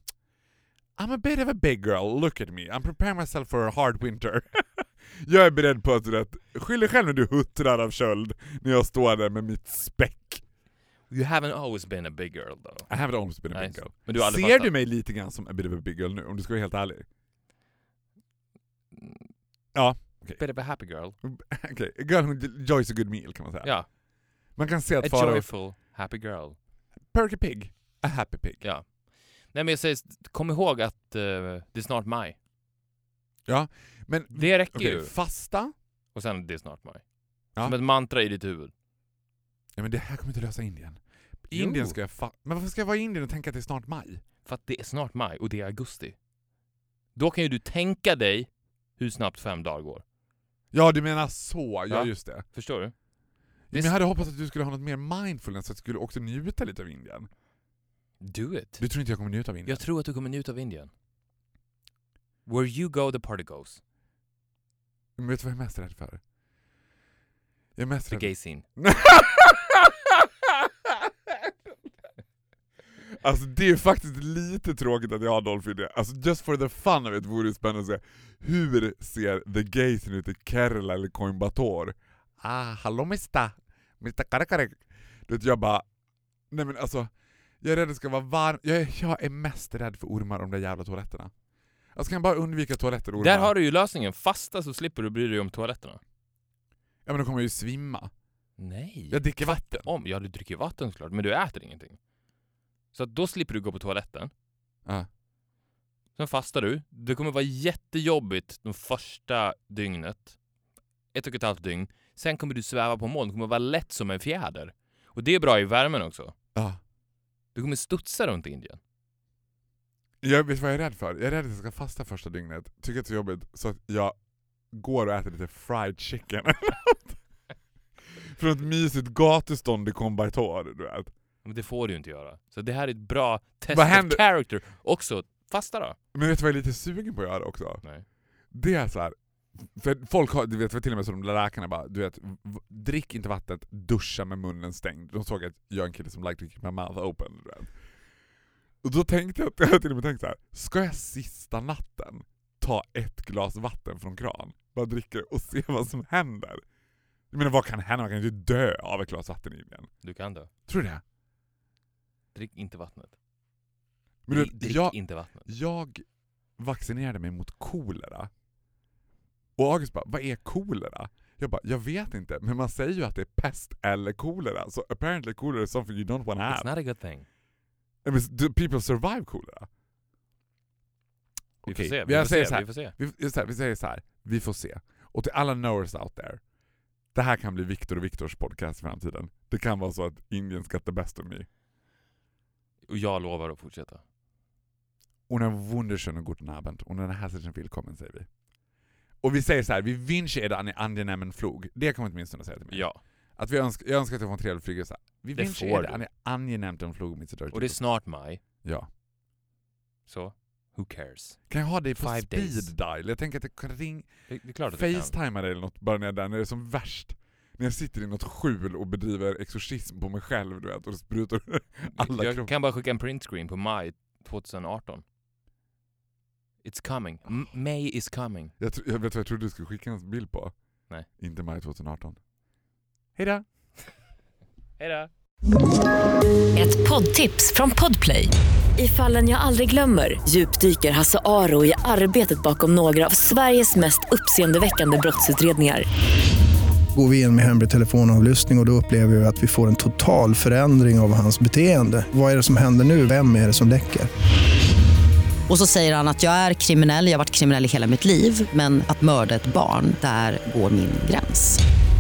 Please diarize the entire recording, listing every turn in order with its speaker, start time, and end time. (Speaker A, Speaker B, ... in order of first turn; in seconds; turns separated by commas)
Speaker A: 1.0-10.4, Speaker B: 11.1-12.9, Speaker A: 12.9-17.1, Speaker B: 13.5-14.7, Speaker B: 18.9-19.3, Speaker A: 19.7-20.4, Speaker B: 20.4-21.2, Speaker A: 21.2-23.7, Speaker A: 24.6-25.5, Speaker B: 25.0-26.6, Speaker A: 27.1-28.6, Speaker B: 28.6-28.9, Speaker B: 29.5-32.4, Speaker A: 33.5-35.7, Speaker B: 34.3-35.1, Speaker B: 36.1-38.7, Speaker A: 39.8-44.2, Speaker B: 41.5-42.0, Speaker B: 44.5-46.2, Speaker B: 47.1-50.0, Speaker A: 50.7-52.5, Speaker B: 51.9-52.9, Speaker A: 53.7-57.3, Speaker B: 53.7-54.0, Speaker B: 58.2-58.8, Speaker A: 58.8-59.8, Speaker B: 59.7-60.9, Speaker B: 62.5-63.8, Speaker A: 65.2-66.2, Speaker A: 67.8-71.3, Speaker B: 68.1-68.7, Speaker A: 73.2-85.9, Speaker A: 86.5-91.3, Speaker A: 92.0-93.5, Speaker B: 93.2-96.0, Speaker A: 97.1-98.1, Speaker B: 98.6-102.0, Speaker A: 99.1-99.9, Speaker B: 102.9-104.3, Speaker B: 106.2-110.4, Speaker B: 111.1-116.3, Speaker A: 116.5-116.8, Speaker B: 117.5-118.8, Speaker A: 120.2-124.2, Speaker A: 124.7-127.2, Speaker A: 128.0-131.1, Speaker B: 131.4-136.0, Speaker A: 133.7-134.2, Speaker A: 136.1-137.8, Speaker A: 138.5-147.7, Speaker A: 148.8-156.6, Speaker A: 157.3-159.9, Speaker B: 160.0-160.5, Speaker A: 160.7-161.0, Speaker B: 162.3-163.1, Speaker A: 164.3-166.1, Speaker B: 164.3-165.4, Speaker A: 166.6-168.3, Speaker A: 169.6-176.7, Speaker B: 176.5-177.3, Speaker A: 178.0-179.7, Speaker B: 181.7-182.9, Speaker A: 181.7-186.4, Speaker A: 187.1-191.5, Speaker B: 192.9-194.0, Speaker A: 195.3-198.3, Speaker A: 199.2-207.8, Speaker B: 202.7-203.0, Speaker B: 205.4-206.0, Speaker B: 207.5-208.4, Speaker A: 208.6-208.9, Speaker B: 210.1-211.4, Speaker A: 211.5-214.1, Speaker B: 211.9-212.7, Speaker B: 214.3-215.1, Speaker A: 214.7-222.5, Speaker B: 221.9-225.0, Speaker B: 226.6-228.5, Speaker A: 228.6-230.5, Speaker A: 231.2-232.2, Speaker A: 233.2-233.4, Speaker B: 234.8-235.1, Speaker C: 236.6-245.9, Speaker D: 246.9-254.1, Speaker E: 255.5-261.6